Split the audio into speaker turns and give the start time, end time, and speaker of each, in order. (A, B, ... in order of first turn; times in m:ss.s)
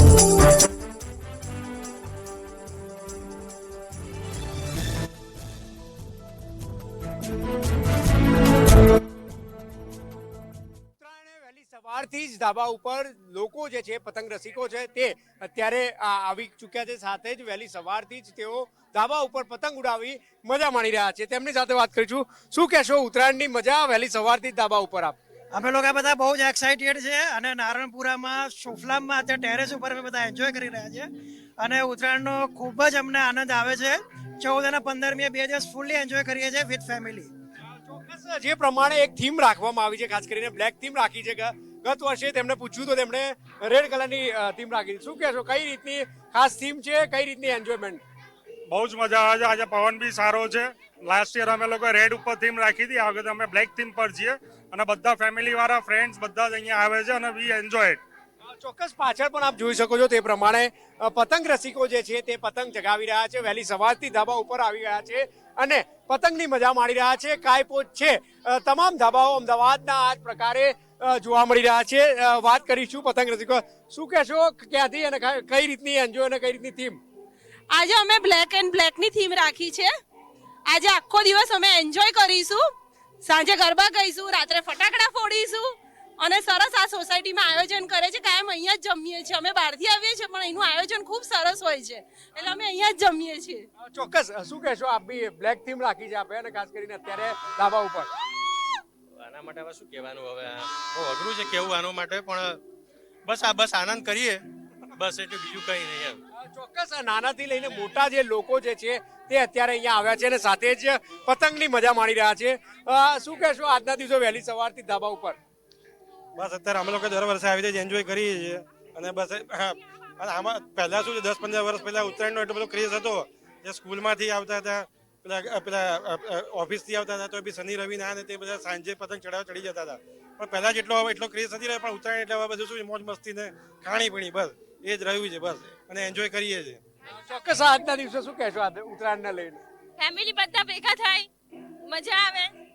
0:11.0-0:25.2 A
0:25.5-0:37.3 B
0:37.8-0:48.0 A
0:48.7-0:58.0 C
0:58.5-1:17.0 A
1:17.7-1:19.9 D
1:20.7-1:22.6 D
1:23.2-1:25.7 D
1:26.2-1:33.6 D
1:33.8-1:38.1 A
1:39.1-1:42.6 E
1:43.2-1:44.4 E
1:45.0-1:46.2 E
1:46.4-1:55.4 A
1:56.4-2:16.8 F
2:17.1-2:19.6 A
2:20.0-2:21.3 D
2:21.9-2:22.5 D